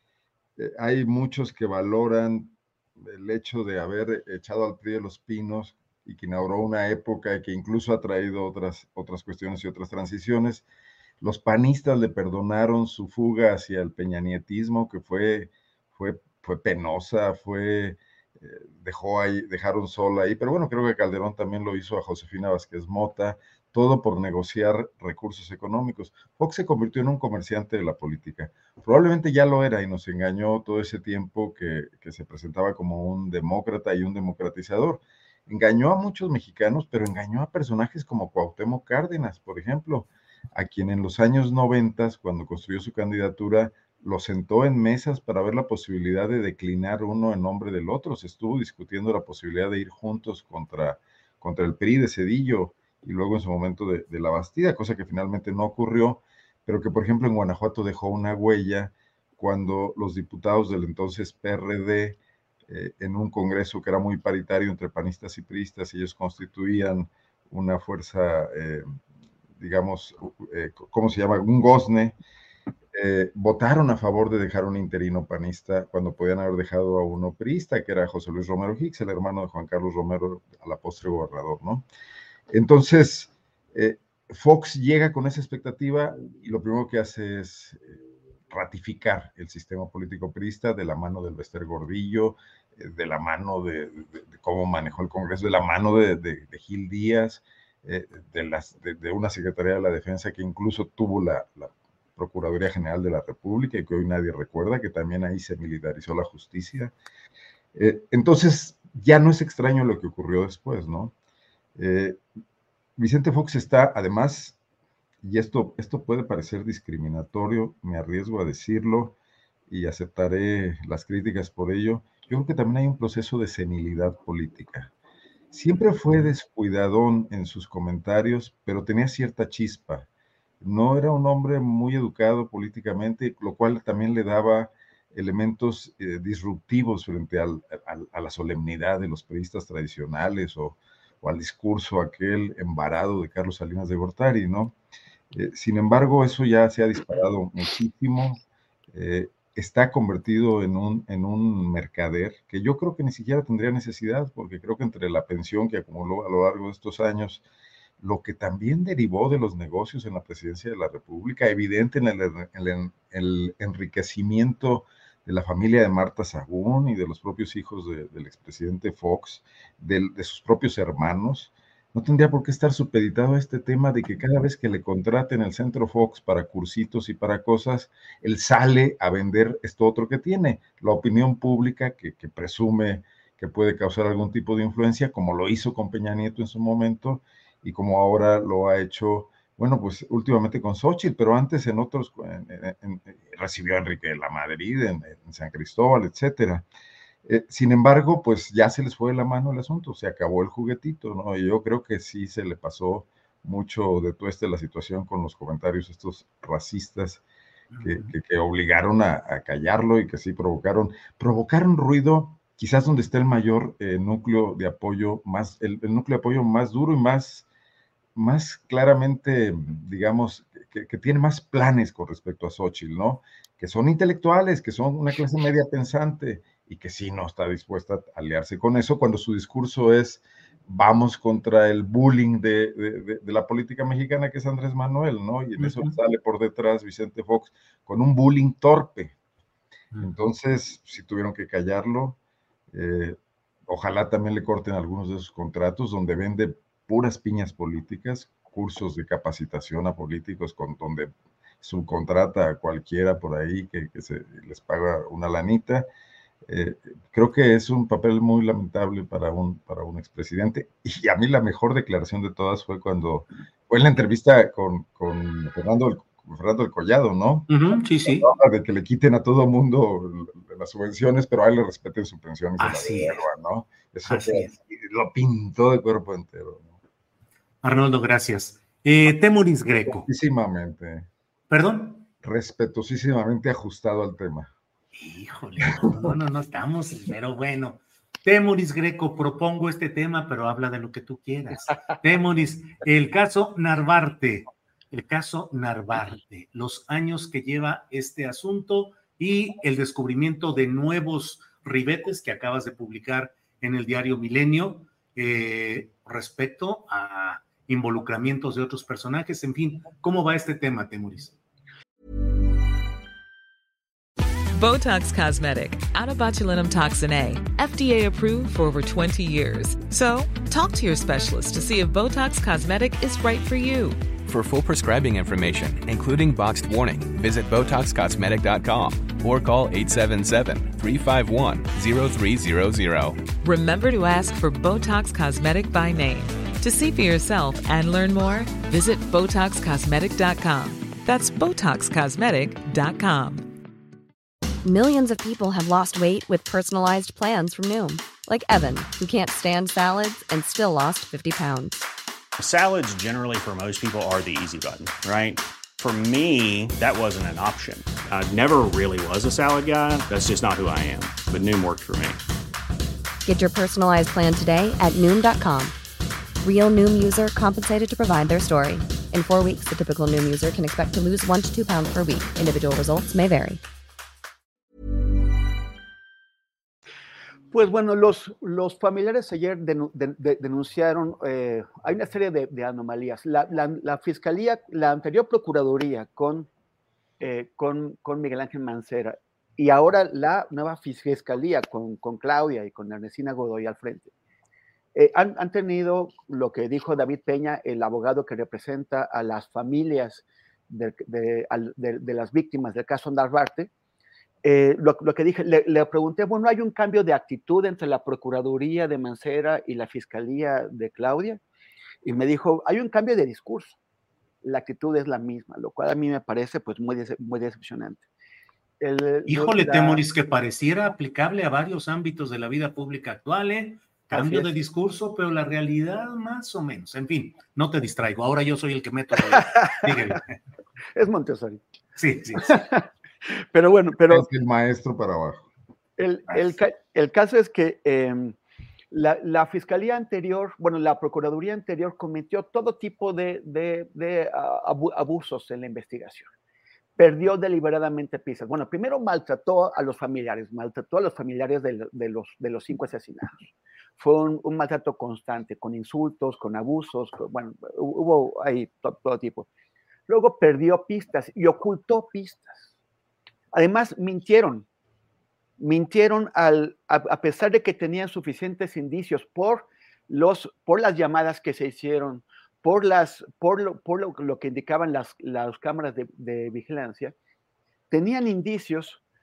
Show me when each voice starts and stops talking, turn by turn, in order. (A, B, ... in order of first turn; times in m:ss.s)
0:00.6-0:10.6 A
0:11.2-1:08.9 A
1:09.6-1:12.2 A
1:12.9-1:21.8 A
1:22.5-1:46.9 A
1:47.7-1:51.1 A
1:51.8-1:52.2 A
1:53.0-1:54.6 A
1:55.2-1:59.2 A
1:59.7-2:04.9 A
2:05.5-2:10.1 A
2:10.6-2:24.7 A
2:25.3-2:37.4 A
2:38.0-3:16.6 A
3:17.2-3:27.2 A
3:27.7-3:28.1 B
3:27.8-3:37.4 A
3:38.2-3:59.1 A
3:55.6-3:55.9 B
4:00.0-4:02.2 A
4:02.7-4:15.9 A
4:16.5-4:36.7 A
4:27.5-4:28.3 B
4:32.6-4:33.2 B
4:34.0-4:34.5 B
4:37.6-4:40.1 B
4:39.8-4:41.1 A
4:41.5-4:42.1 B
4:42.2-4:44.5 A
4:44.9-5:11.3 B
4:45.8-4:46.1 A
5:14.5-5:24.1 C
5:24.2-5:33.3 D
5:33.4-5:43.6 C
5:44.6-5:51.8 E
5:52.4-6:02.2 F
6:03.2-6:05.7 E
6:06.4-6:13.6 E
6:17.5-6:26.5 G
6:27.2-6:34.1 G
6:34.9-6:43.7 G
6:44.4-6:51.4 G
6:52.0-6:53.8 G
6:54.4-6:58.0 G
6:58.8-7:00.0 G
6:59.3-7:10.3 B
7:04.1-7:04.5 G
7:09.4-7:09.8 G
7:11.0-7:11.6 G
7:12.0-7:12.6 B
7:12.4-7:12.8 G
7:13.5-7:14.2 G
7:14.1-7:15.5 A
7:16.0-7:18.4 G
7:18.9-7:26.3 G
7:27.0-7:39.5 G
7:40.1-7:42.7 G
7:43.5-7:44.6 G
7:45.6-7:57.1 G
7:57.9-7:59.0 G